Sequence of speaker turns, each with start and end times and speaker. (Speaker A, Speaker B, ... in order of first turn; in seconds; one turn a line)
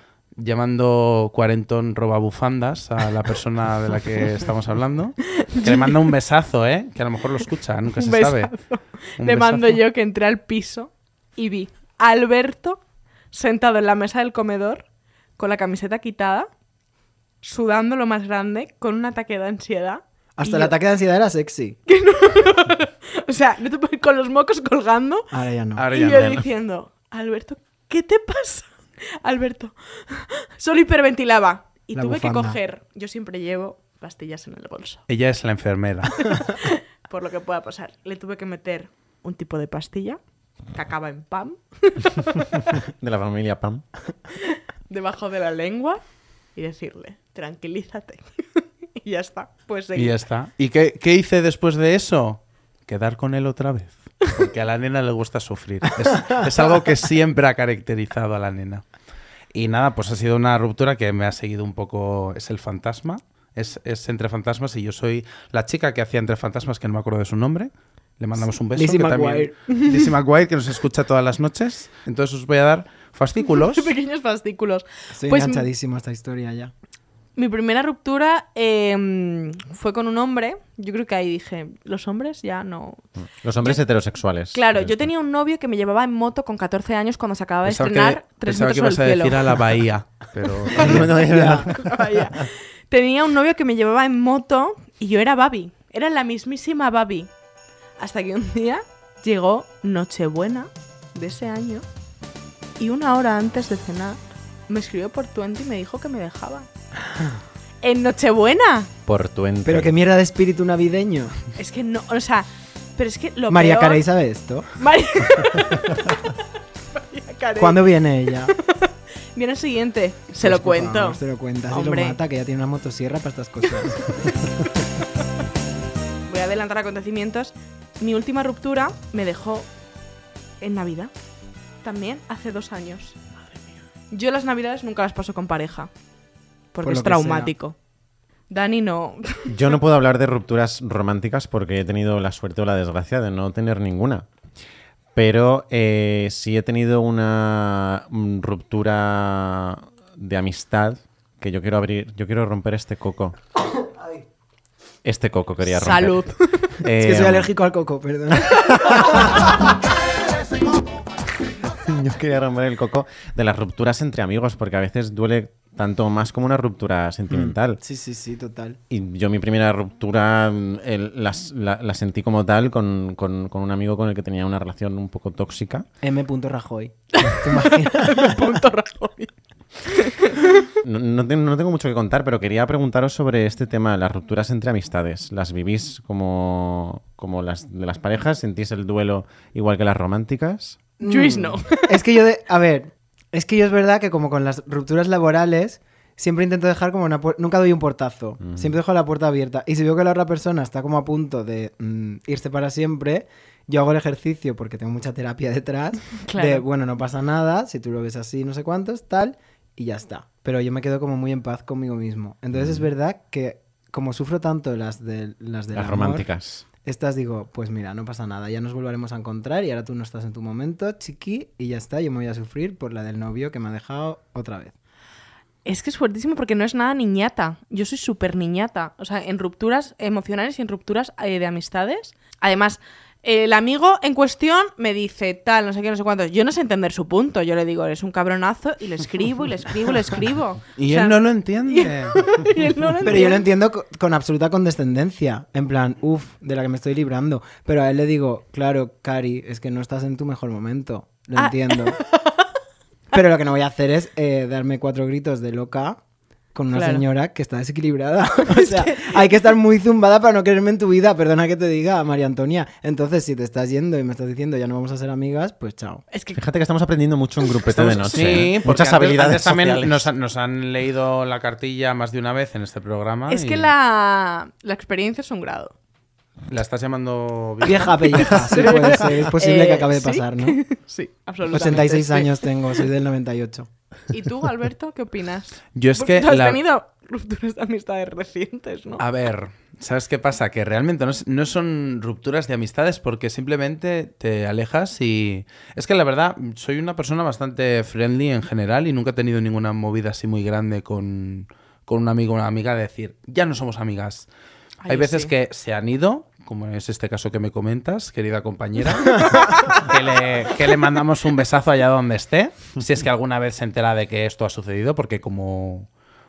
Speaker A: 0.3-8.6
Speaker B: 5.4-5.9
Speaker B: 8.0-14.8
Speaker A: 9.2-9.8
Speaker B: 15.4-16.5
Speaker B: 17.4-20.7
Speaker C: 20.4-21.8
Speaker B: 21.9-25.3
Speaker C: 25.3-25.9
Speaker A: 25.7-26.4
Speaker B: 25.9-35.0
Speaker C: 31.9-32.6
Speaker A: 35.1-36.3
Speaker B: 36.3-40.2
Speaker B: 40.7-42.8
Speaker D: 42.7-43.8
Speaker B: 44.4-50.2
Speaker A: 49.9-58.8
Speaker A: 59.5-73.9
Speaker C: 68.7-69.5
Speaker B: 73.4-75.7
Speaker C: 75.1-76.7
Speaker B: 77.3-83.0
Speaker D: 83.4-85.1
Speaker B: 84.5-89.6
Speaker A: 87.6-91.1
Speaker D: 90.7-92.4
Speaker C: 90.8-91.7
Speaker B: 91.3-97.3
Speaker B: 98.0-101.8
Speaker B: 102.8-106.7
Speaker B: 107.8-108.9
Speaker D: 109.0-109.9
Speaker C: 109.6-111.4
Speaker B: 111.5-114.0
Speaker C: 113.5-114.7
Speaker B: 114.8-116.4
Speaker B: 116.9-122.2
Speaker C: 117.6-118.5
Speaker C: 120.4-124.2
Speaker B: 126.3-129.7
Speaker B: 130.6-131.1
Speaker B: 131.8-133.2
Speaker B: 134.1-135.9
Speaker B: 136.7-137.8
Speaker C: 136.8-137.5
Speaker B: 138.5-139.6
Speaker D: 139.5-144.3
Speaker D: 145.1-153.3
Speaker D: 155.0-157.5
Speaker B: 155.7-156.8
Speaker C: 156.9-159.3
Speaker D: 158.4-159.4
Speaker D: 161.6-167.8
Speaker C: 167.3-168.8
Speaker D: 168.9-175.8
Speaker C: 176.0-178.5
Speaker B: 177.1-180.7
Speaker D: 180.8-190.8
Speaker C: 191.0-216.3
Speaker B: 191.0-192.0
Speaker D: 198.4-198.8
Speaker B: 206.2-206.6
Speaker D: 212.5-212.8
Speaker D: 215.7-216.6
Speaker C: 216.8-224.7
Speaker B: 225.6-243.4
Speaker A: 240.8-242.9
Speaker C: 243.0-252.0
Speaker B: 251.4-252.4
Speaker C: 253.1-256.0
Speaker C: 256.5-266.0
Speaker B: 256.7-257.0
Speaker B: 258.5-259.2
Speaker B: 266.1-266.4
Speaker D: 266.3-270.1
Speaker A: 267.7-273.7
Speaker B: 273.3-275.7
Speaker A: 276.5-278.7
Speaker C: 277.6-280.6
Speaker B: 278.1-282.5
Speaker C: 281.5-283.7
Speaker B: 284.1-289.0
Speaker A: 285.7-286.6
Speaker A: 289.0-304.3
Speaker B: 304.8-305.3
Speaker A: 304.9-315.9
Speaker B: 309.4-309.7